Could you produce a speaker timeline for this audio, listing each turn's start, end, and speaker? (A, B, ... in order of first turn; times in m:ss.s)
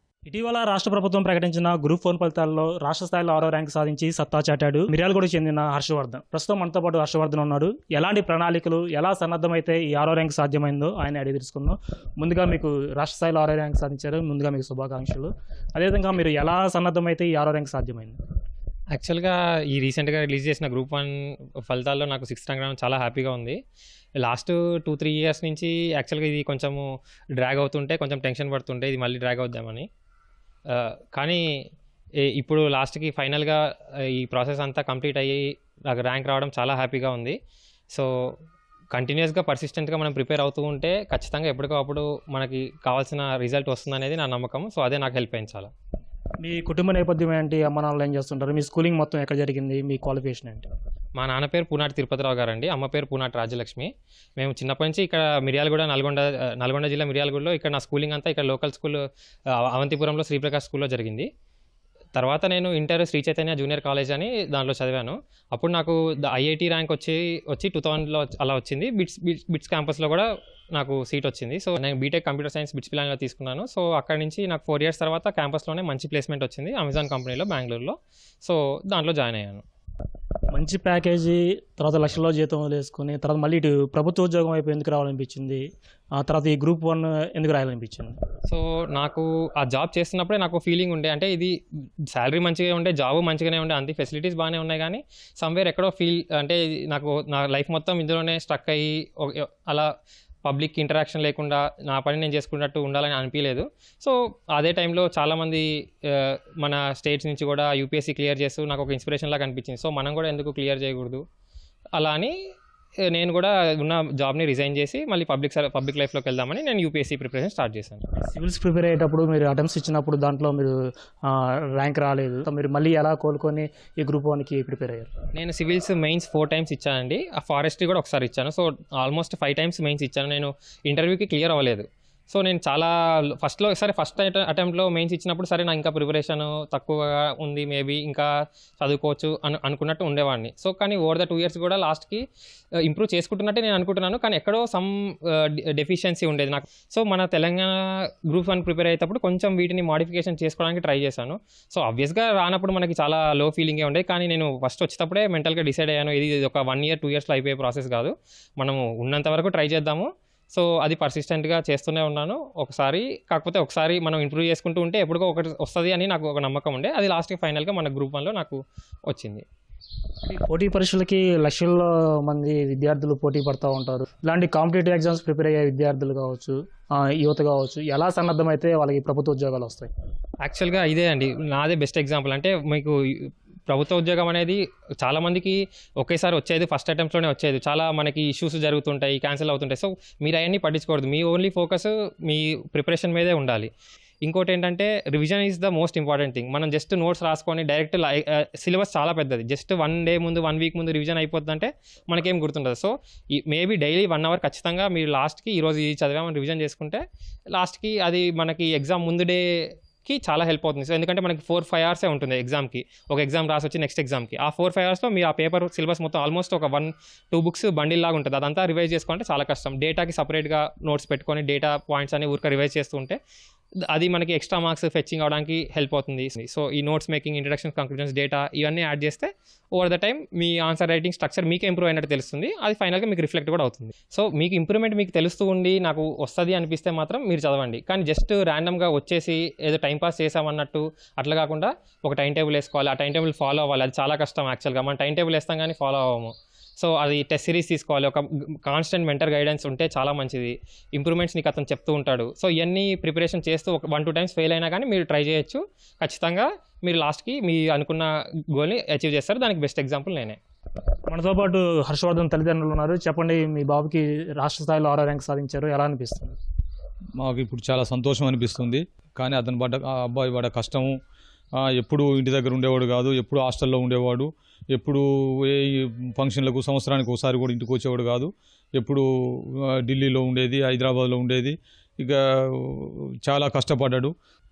0:00.3-0:18.2 A
0:18.9-0:21.2 B
0:21.7-0:23.6 B
0:24.2-0:26.9 B
0:27.4-0:29.9 B
0:30.7-0:31.4 B
0:32.3-0:37.4 B
0:38.9-0:45.7 B
0:46.4-0:50.7 A
0:51.2-1:01.3 B
1:02.1-1:19.6 B
1:20.5-1:28.2 A
1:28.5-1:31.5 B
1:32.1-1:39.9 B
1:40.4-1:51.2 B
1:52.0-1:52.3 B
1:53.1-1:58.0 B
1:58.2-2:00.7 A
2:01.3-2:05.1 A
2:05.3-2:22.2 B
2:22.8-2:49.4 B
2:50.2-2:59.9 A
3:00.4-3:03.0 B
3:03.7-3:13.7 B
3:14.2-3:27.0 B
3:27.5-3:29.4 B
3:30.0-3:43.2 B
3:43.9-4:20.4 B
4:21.1-4:26.4 A
4:27.2-4:31.0 C
4:31.6-4:44.1 C